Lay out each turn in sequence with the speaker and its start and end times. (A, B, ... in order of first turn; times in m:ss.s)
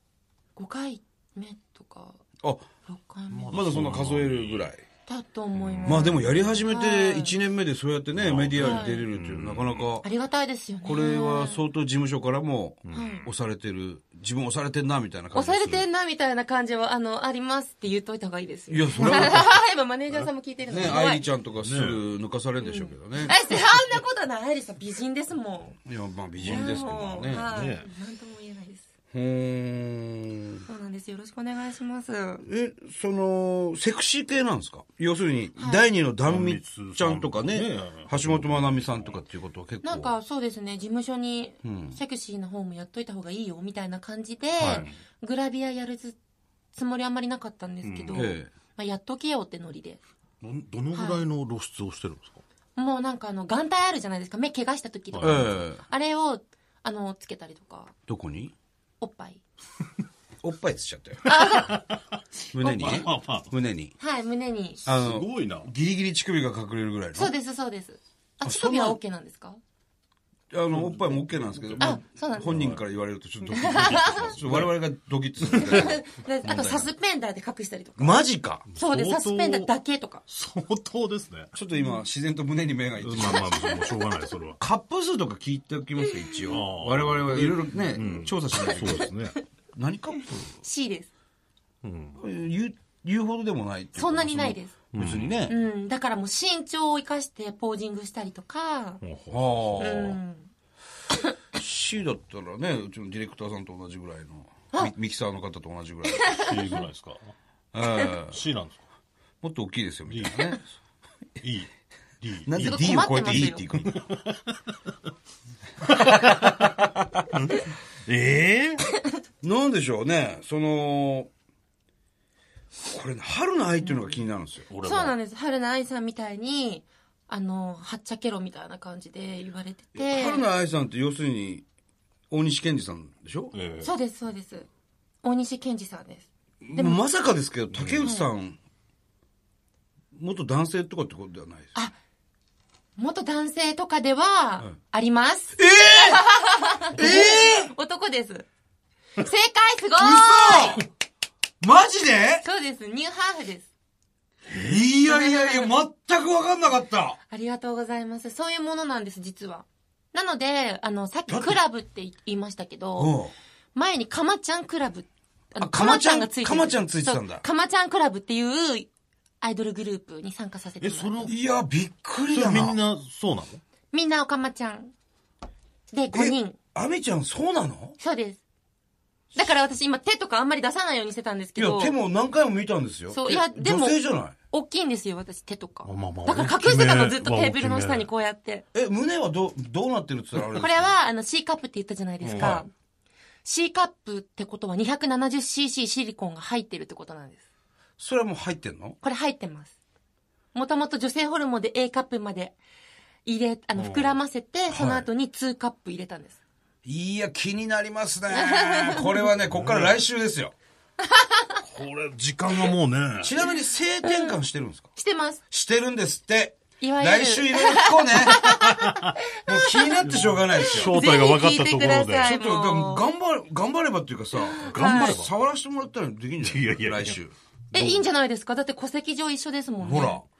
0:00.6-0:02.2 A
0:02.9-0:03.6 A
0:03.3-0:04.7 B
0:03.5-0:04.8 C
0:05.1-0:07.3 A
0:05.5-0:06.1 B
0:05.8-0:10.0 C
0:08.2-0:09.9 B
0:08.6-0:09.1 A
0:10.0-0:11.7 A
0:10.8-0:15.8 C
0:12.8-0:13.3 B
0:12.9-0:13.3 A
0:15.3-0:21.2 A
0:18.7-0:19.5 C
0:20.7-0:23.4 C
0:21.6-0:22.0 B
0:22.6-0:25.8 A
0:25.8-0:27.5 C
0:26.4-0:27.9 B
0:26.4-0:28.8 A
0:29.1-0:30.6 C
0:30.7-0:32.4 A
0:32.4-0:40.1 C
0:35.6-0:35.8 A
0:36.2-0:39.2 B
0:39.8-0:46.2 A
0:41.6-0:42.0 C
0:44.6-0:44.8 C
0:44.6-0:44.9 B
0:46.7-0:50.0 A
0:47.8-0:48.3 B
0:48.1-0:48.5 C
0:50.4-0:52.4 B
0:50.9-0:51.2 A
0:52.8-0:57.9 A
0:55.1-0:55.5 B
0:55.2-0:55.8 C
0:58.1-0:58.5 C
0:59.0-0:59.4 A
1:00.4-1:01.3 C
1:01.2-1:02.0 A
1:01.7-1:02.0 B
1:02.5-1:03.9 C
1:02.6-1:03.1 A
1:02.8-1:03.5 B
1:04.0-1:04.8 A
1:04.8-1:07.3 C
1:04.8-1:05.7 B
1:07.1-1:09.6 A
1:08.4-1:09.0 C
1:10.5-1:16.9 C
1:10.7-1:12.8 B
1:11.8-1:12.5 A
1:13.4-1:14.8 B
1:13.5-1:14.4 A
1:15.5-1:20.2 A
1:18.0-1:18.7 C
1:18.7-1:19.7 B
1:20.3-1:21.5 B
1:21.5-1:23.8 C
1:21.7-1:22.0 A
1:23.0-1:24.6 B
1:23.5-1:23.9 A
1:24.6-1:29.1 C
1:26.0-1:26.6 A
1:26.5-1:29.4 B
1:29.7-1:30.4 C
1:30.6-1:31.1 A
1:31.8-1:32.2 B
1:32.2-1:35.6 C
1:33.9-1:34.8 A
1:34.9-1:35.5 B
1:35.5-1:39.0 A
1:39.0-1:40.2 B
1:39.3-1:40.2 C
1:39.8-1:40.5 A
1:41.5-1:46.5 C
1:46.1-1:46.6 A
1:46.3-1:47.3 B
1:47.7-1:48.4 C
1:48.3-1:48.8 B
1:49.4-1:50.6 C
1:50.1-1:50.5 B
1:51.4-1:51.7 B
1:52.2-1:54.7 B
1:52.4-1:54.0 C
1:52.6-1:53.6 A
1:55.8-1:56.8 B
1:57.3-1:58.9 B
1:59.4-2:01.3 C
2:02.9-2:04.7 C
2:04.7-2:05.2 B
2:04.8-2:10.5 A
2:09.9-2:11.6 C
2:12.3-2:13.5 C
2:13.5-2:13.9 B
2:13.8-2:14.7 A
2:15.2-2:17.0 A
2:16.6-2:18.6 C
2:17.7-2:18.0 B
2:18.0-2:18.3 A
2:20.1-2:21.7 C
2:23.0-2:28.4 A
2:25.6-2:26.2 C
2:26.9-2:27.7 C
2:29.2-2:30.9 A
2:30.0-2:30.8 C
2:31.6-2:32.4 C
2:32.4-2:33.7 A
2:34.4-2:37.2 C
2:35.0-2:35.7 A
2:37.3-2:43.2 A
2:41.3-2:41.6 C
2:43.0-2:43.3 C
2:43.7-2:48.9 A
2:45.6-2:47.4 C
2:49.4-2:51.3 A
2:50.8-2:51.3 B
2:51.2-2:52.8 C
2:52.3-2:53.6 B
2:53.9-2:54.9 A
2:55.9-2:56.6 A
2:56.1-2:58.0 C
2:58.0-2:58.4 A
2:59.3-3:02.0 A
3:01.6-3:04.3 C
3:03.1-3:08.6 A
3:05.8-3:08.1 B
3:08.7-3:10.9 C
3:10.4-3:12.7 A
3:12.2-3:12.6 C
3:12.3-3:12.6 B
3:13.4-3:17.4 A
3:18.0-3:19.0 C
3:19.0-3:19.7 A
3:20.5-3:22.5 A
3:23.2-3:26.4 A
3:23.8-3:24.0 C
3:24.7-3:25.1 C
3:26.8-3:30.5 C
3:28.3-3:29.3 A
3:29.4-3:30.0 B
3:31.1-3:31.6 A
3:31.6-3:33.4 B
3:33.2-3:34.9 C
3:34.0-3:34.4 A
3:35.0-3:35.4 A
3:35.5-3:38.5 C
3:36.8-3:43.0 A
3:38.4-3:39.1 B
3:39.4-3:40.9 C
3:40.0-3:42.3 B
3:42.2-3:47.3 C
3:44.4-3:45.2 A
3:44.7-3:45.3 B
3:46.4-3:47.2 B
3:47.7-3:50.2 A
3:47.7-3:48.0 B
3:49.8-3:50.2 C